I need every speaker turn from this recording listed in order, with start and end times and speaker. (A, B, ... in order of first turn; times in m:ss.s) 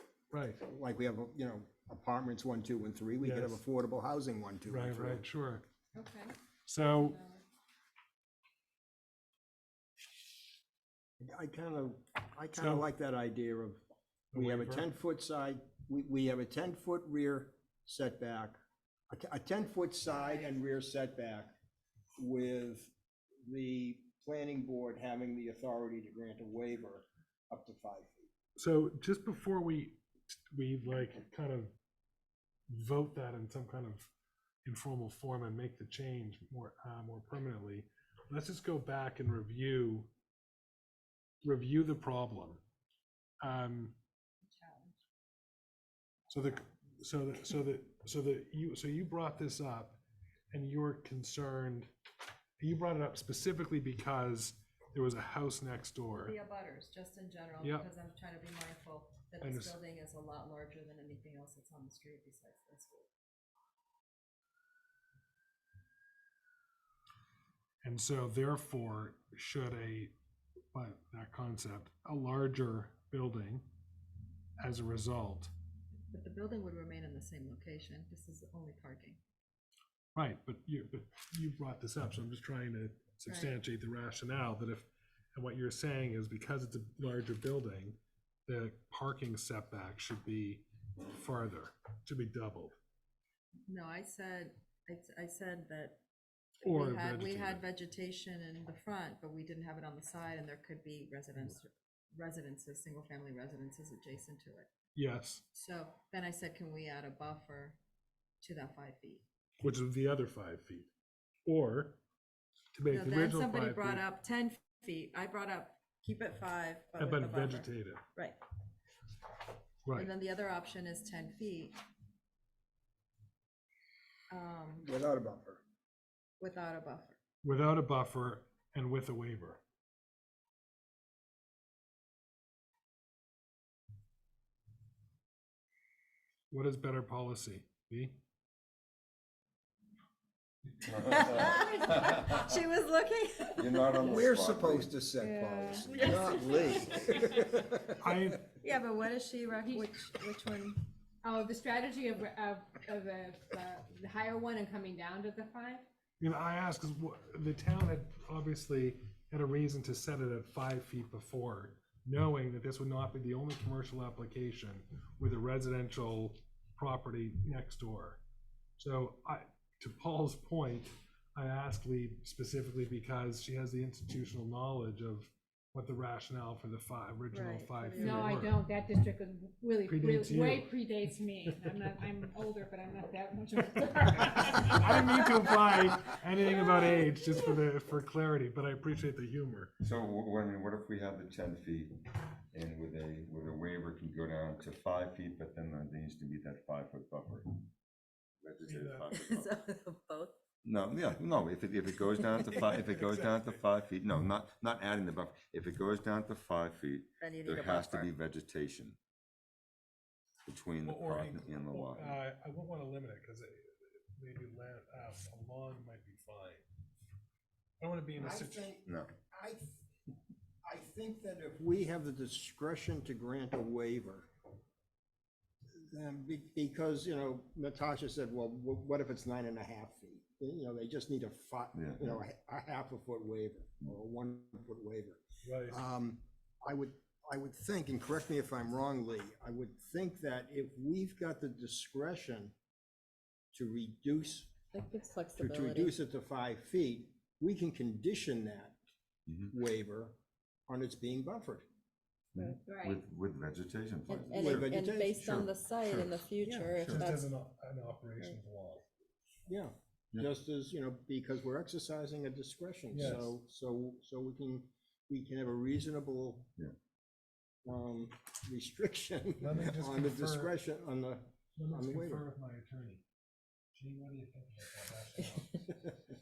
0:00.3-0:00.6 A
0:00.6-0:05.2 B
0:03.2-0:03.6 A
0:04.7-0:05.6 A
0:06.0-0:06.4 C
0:06.7-0:07.2 A
0:07.0-0:07.4 C
0:11.2-0:13.8 B
0:12.5-0:12.9 A
0:14.3-0:14.9 A
0:14.3-0:18.6 B
0:19.1-0:21.6 B
0:20.1-0:20.6 C
0:22.2-0:22.9 B
0:23.4-0:28.3 B
0:28.6-0:31.7 A
0:32.7-0:34.1 A
0:34.6-0:40.1 A
0:41.4-0:42.6 A
0:43.4-0:44.0 A
0:44.4-0:45.0 C
0:46.3-0:50.0 A
0:50.5-0:51.9 A
0:52.6-0:56.3 A
0:56.2-1:03.1 C
0:57.6-0:57.9 A
0:59.4-0:59.8 A
1:07.8-1:10.1 A
1:10.7-1:13.7 A
1:14.6-1:15.5 A
1:16.1-1:19.2 C
1:20.2-1:32.8 A
1:23.3-1:23.5 C
1:33.7-1:36.0 C
1:36.6-1:37.6 A
1:36.6-1:44.7 C
1:45.0-1:45.4 A
1:45.5-1:47.8 C
1:48.4-1:49.2 C
1:49.6-1:50.9 A
1:51.5-1:52.0 A
1:52.7-1:54.0 A
1:52.9-1:58.4 C
1:57.0-1:58.0 A
1:59.8-2:00.1 A
1:59.9-2:01.8 C
2:04.3-2:04.9 C
2:04.8-2:05.6 B
2:06.4-2:07.2 C
2:07.4-2:09.6 A
2:16.5-2:18.2 A
2:20.9-2:22.3 D
2:20.9-2:24.3 C
2:23.6-2:25.0 D
2:24.0-2:28.0 B
2:25.2-2:27.1 C
2:28.0-2:28.5 A
2:28.6-2:30.8 C
2:31.2-2:35.8 E
2:36.2-2:48.2 A
2:48.8-2:58.6 A
2:57.3-2:58.4 C
2:58.0-3:05.1 E
2:59.9-3:00.7 A
3:04.5-3:09.7 A
3:09.8-3:17.7 D
3:18.4-3:19.5 D
3:18.7-3:19.1 A
3:19.1-3:20.4 C
3:20.6-3:29.0 D
3:22.4-3:23.6 A
3:27.2-3:28.1 C
3:30.5-3:32.2 D
3:30.8-3:36.6 A
3:37.8-3:38.7 A
3:38.2-3:39.8 B
3:38.9-3:39.1 D
3:40.7-3:44.3 B
3:45.9-4:02.5 B
3:51.8-3:52.1 D
3:55.4-3:55.8 A
4:03.5-4:04.5 B
4:04.7-4:05.9 C
4:05.4-4:08.8 B
4:09.5-4:10.2 B
4:10.7-4:11.6 B
4:12.4-4:17.1 D
4:12.4-4:12.7 C
4:12.7-4:13.0 E
4:14.1-4:17.2 C
4:14.3-4:15.2 B
4:16.4-4:18.8 A
4:19.5-4:26.5 B
4:22.9-4:23.4 A
4:27.7-4:32.2 B
4:29.4-4:30.6 A
4:31.6-4:33.0 A
4:33.7-4:35.9 A